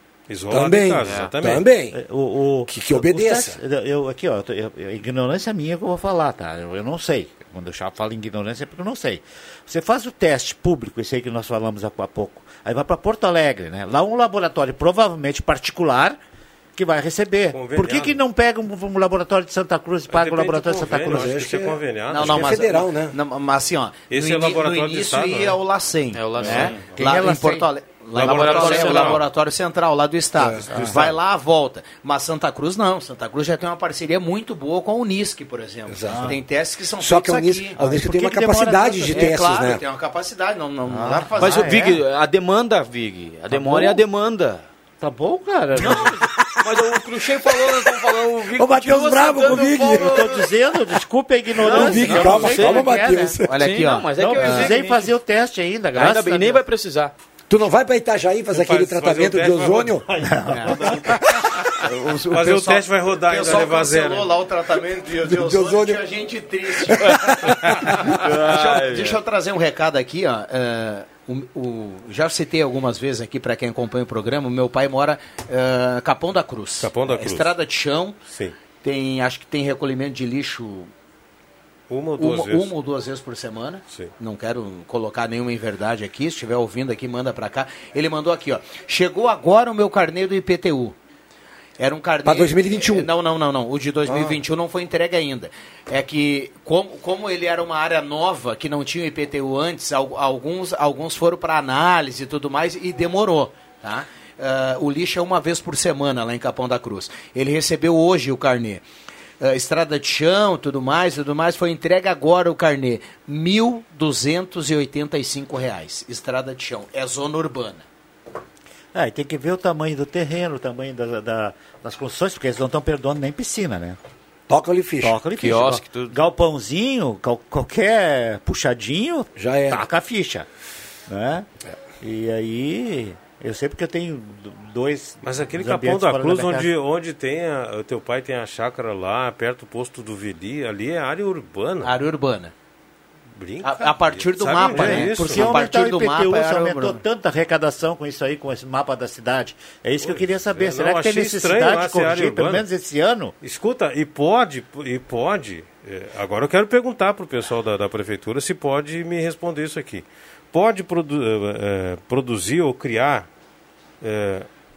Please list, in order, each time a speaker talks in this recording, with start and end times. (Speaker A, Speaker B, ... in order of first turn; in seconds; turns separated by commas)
Speaker A: 0.3-1.6, Speaker B: 0.5-2.0, Speaker C: 1.0-1.3, Speaker D: 1.9-16.2, Speaker B: 2.6-3.6, Speaker D: 16.8-21.4, Speaker A: 17.5-18.2, Speaker A: 20.1-22.7, Speaker B: 21.0-23.1, Speaker E: 22.1-37.8, Speaker A: 24.1-25.6, Speaker C: 26.1-26.9, Speaker D: 26.4-27.7, Speaker A: 28.1-29.2, Speaker C: 28.1-29.2, Speaker D: 28.6-28.8, Speaker B: 30.4-31.1, Speaker D: 30.7-31.1, Speaker B: 35.9-36.4, Speaker D: 36.1-36.4, Speaker B: 37.0-39.8, Speaker D: 37.8-39.3, Speaker E: 39.1-41.7, Speaker D: 40.9-42.0, Speaker C: 41.4-44.6, Speaker D: 43.5-44.0, Speaker D: 45.0-46.2, Speaker C: 45.8-46.1, Speaker C: 46.6-50.3, Speaker B: 47.5-47.8, Speaker B: 48.5-50.3, Speaker D: 49.9-53.3, Speaker C: 51.6-53.0, Speaker B: 51.6-53.5, Speaker E: 53.5-54.7, Speaker C: 53.5-55.1, Speaker D: 54.2-56.6, Speaker C: 55.9-57.1, Speaker B: 57.5-60.1, Speaker A: 58.5-60.2, Speaker D: 60.3-61.0, Speaker E: 60.5-61.0, Speaker E: 62.0-67.3, Speaker A: 62.3-64.3, Speaker B: 65.2-66.0, Speaker B: 66.8-68.1, Speaker C: 68.2-69.2, Speaker E: 68.2-78.2, Speaker A: 76.8-77.5, Speaker A: 78.3-78.5, Speaker E: 78.8-80.9, Speaker A: 81.9-82.7, Speaker E: 82.2-90.9, Speaker E: 91.8-108.8, Speaker B: 92.2-93.1, Speaker B: 94.1-94.4, Speaker E: 109.4-117.8, Speaker D: 118.9-124.0, Speaker B: 124.5-125.2, Speaker D: 125.0-130.4, Speaker C: 125.4-126.2, Speaker B: 129.3-129.8, Speaker D: 131.1-131.4, Speaker D: 132.0-136.7, Speaker A: 135.2-141.9, Speaker E: 141.8-142.5, Speaker A: 143.4-145.5, Speaker E: 143.6-147.0, Speaker D: 144.7-153.3, Speaker A: 150.0-152.6, Speaker A: 153.4-163.3, Speaker A: 164.0-164.4